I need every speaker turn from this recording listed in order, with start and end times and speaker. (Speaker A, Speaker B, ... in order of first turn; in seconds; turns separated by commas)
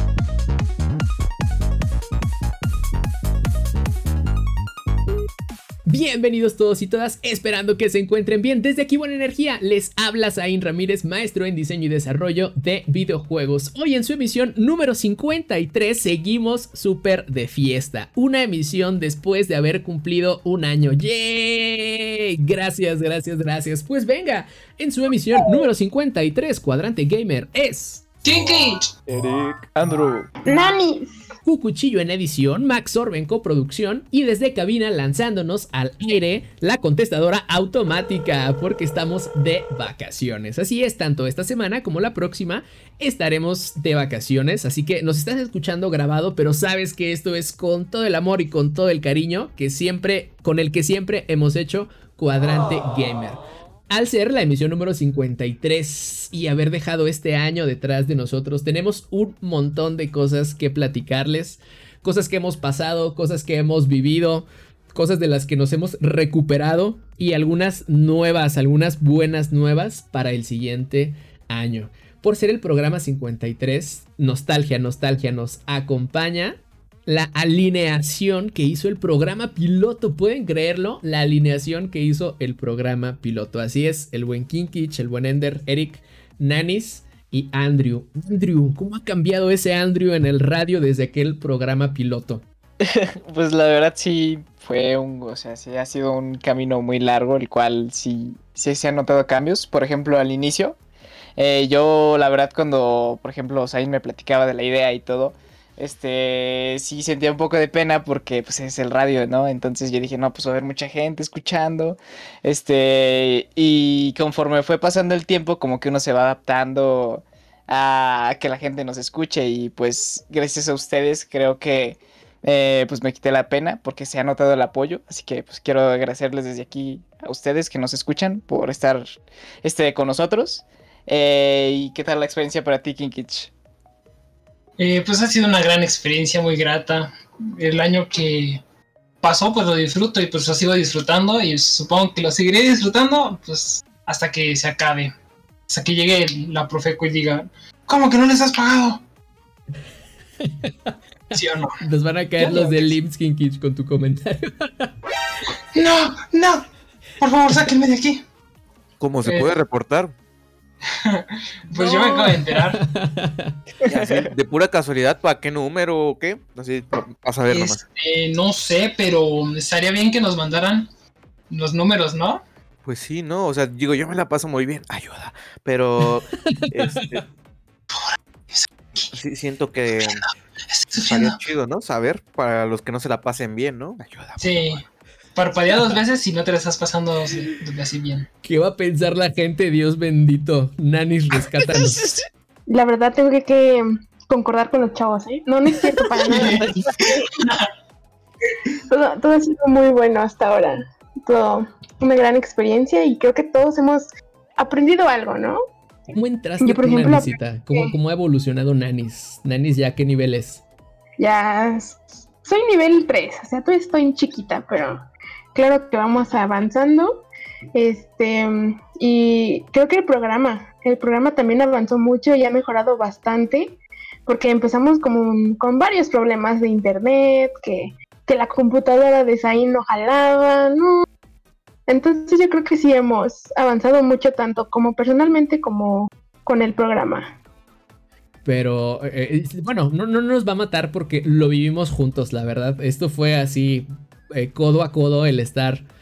Speaker A: 5.8-28.1, Speaker B: 28.2-28.9, Speaker C: 29.1-30.3, Speaker D: 30.5-31.3, Speaker A: 31.4-92.4, Speaker C: 92.8-100.8, Speaker C: 101.3-133.5, Speaker B: 134.8-138.6, Speaker B: 139.2-145.1, Speaker B: 145.7-149.0, Speaker A: 150.4-154.9, Speaker B: 151.3-151.8, Speaker B: 152.4-152.9, Speaker B: 155.7-156.7, Speaker B: 157.2-158.2, Speaker E: 159.0-160.1, Speaker B: 159.2-159.6, Speaker B: 160.8-162.8, Speaker A: 161.7-163.6, Speaker C: 163.8-164.3, Speaker E: 163.8-167.8, Speaker B: 167.5-170.9, Speaker B: 171.5-172.4, Speaker E: 172.8-177.2, Speaker A: 176.4-177.2, Speaker B: 177.9-179.1, Speaker E: 179.1-180.2, Speaker B: 180.0-181.4, Speaker E: 181.0-184.7, Speaker B: 184.4-184.8, Speaker B: 185.3-188.3, Speaker A: 188.4-192.1, Speaker C: 191.6-192.2, Speaker D: 192.7-197.3, Speaker B: 196.2-197.7, Speaker C: 196.4-196.8, Speaker D: 198.9-205.6, Speaker A: 206.1-210.6, Speaker D: 206.6-207.9, Speaker D: 211.2-231.0, Speaker D: 231.9-237.3, Speaker A: 238.4-245.8